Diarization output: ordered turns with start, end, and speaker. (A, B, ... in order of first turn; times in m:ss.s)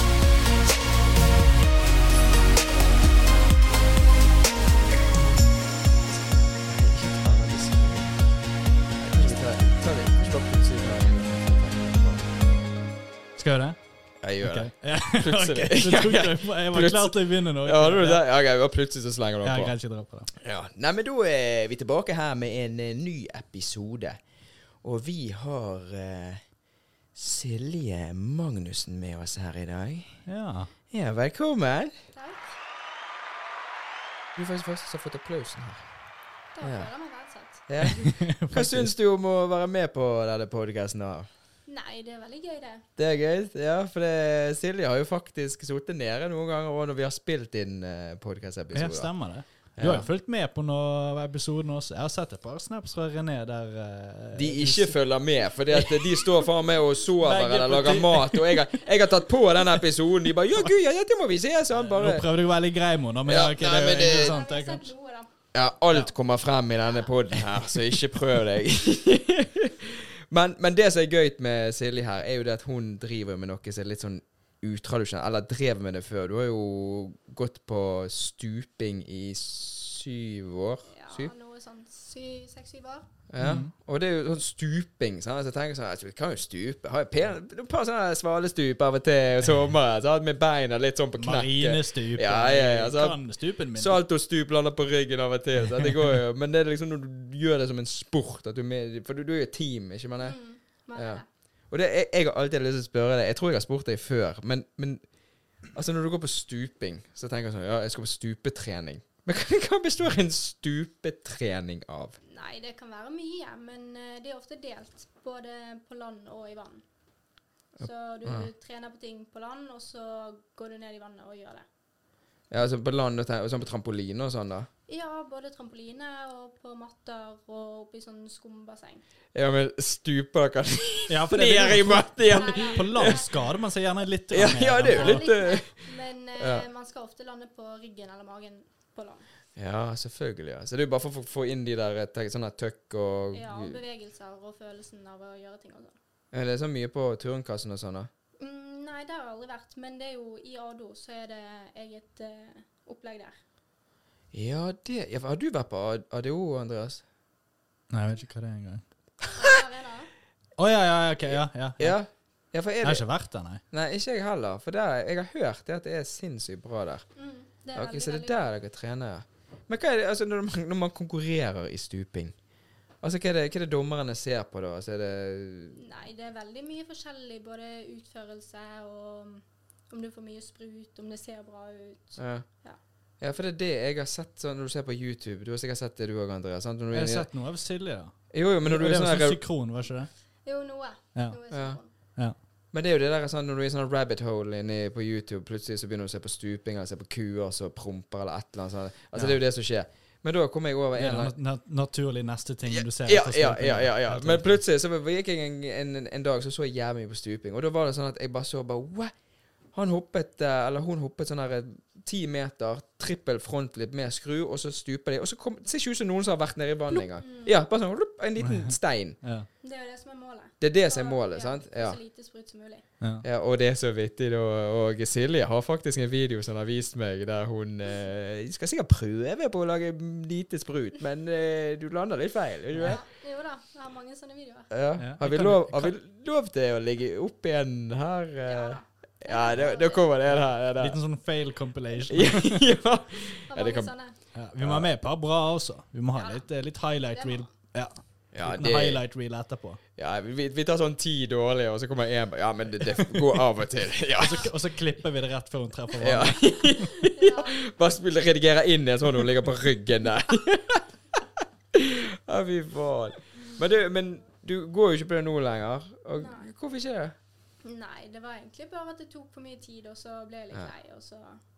0:05.1-0:05.5 A
0:06.1-0:08.3 A
0:09.0-0:12.2 A
0:13.4-0:13.8 B
0:14.2-0:19.7 A
0:14.4-0:18.2 B
0:19.4-0:20.3 B
0:20.4-0:24.2 A
0:24.8-0:26.4 A
0:27.1-0:30.2 A
0:30.2-0:30.7 B
0:30.9-0:31.9 A
0:32.1-0:32.5 C
0:34.4-0:35.8 A
0:36.5-0:37.6 C
0:36.6-0:36.9 A
0:37.7-0:41.3 A
0:37.8-0:38.9 B
0:41.7-0:42.8 C
0:43.0-0:49.1 A
0:48.7-0:55.0 B
0:49.8-0:50.1 A
0:54.3-1:02.3 A
0:55.7-0:56.4 B
0:57.2-0:58.6 B
1:01.7-1:04.9 B
1:03.2-1:04.3 A
1:04.0-1:05.3 C
1:05.5-1:21.3 A
1:20.9-1:23.1 C
1:23.3-1:33.2 A
1:23.4-1:23.7 B
1:31.2-1:34.0 B
1:33.7-1:40.3 A
1:40.2-1:41.2 C
1:40.9-1:45.0 A
1:45.7-1:52.2 A
1:52.2-1:56.8 C
1:57.8-1:58.5 A
1:57.8-2:01.6 C
2:02.5-2:04.7 A
2:04.9-2:09.0 C
2:09.3-2:13.2 A
2:11.1-2:15.3 B
2:12.3-2:13.3 C
2:14.3-2:16.6 A
2:14.8-2:19.2 C
2:19.6-2:23.8 A
2:23.3-2:26.0 C
2:26.3-2:28.1 A
2:28.4-2:33.4 C
2:34.3-2:37.0 A
2:37.9-2:38.8 B
2:39.3-2:40.1 C
2:40.6-2:42.0 B
2:41.8-2:43.0 A
2:42.8-2:43.6 B
2:43.7-2:47.0 A
2:47.2-2:48.4 C
2:47.7-2:52.3 A
2:53.0-2:55.8 A
2:55.7-3:02.8 C
3:02.2-3:02.4 A
3:03.2-3:07.3 A
3:06.9-3:10.1 B
3:08.3-3:09.4 A
3:10.4-3:11.9 C
3:11.5-3:11.8 A
3:12.7-3:21.3 A
3:21.0-3:24.6 B
3:22.7-3:29.1 A
3:29.7-3:39.2 A
3:36.9-3:37.6 C
3:38.4-3:39.5 B
3:39.6-3:42.8 C
3:40.6-3:42.0 A
3:43.2-3:53.0 A
3:52.8-3:54.7 C
3:54.7-4:01.0 A
3:55.0-3:56.0 B
3:58.4-4:00.0 C
4:00.3-4:02.6 B
4:02.1-4:03.9 A
4:03.5-4:04.2 C
4:04.3-4:09.8 B
4:04.6-4:04.9 A
4:06.1-4:06.4 C
4:07.1-4:07.5 C
4:08.3-4:09.0 A
4:10.0-4:14.5 A
4:14.2-4:14.5 C
4:14.2-4:16.8 B
4:16.0-4:27.1 A
4:16.8-4:17.6 C
4:26.2-4:26.5 C
4:27.6-4:31.4 C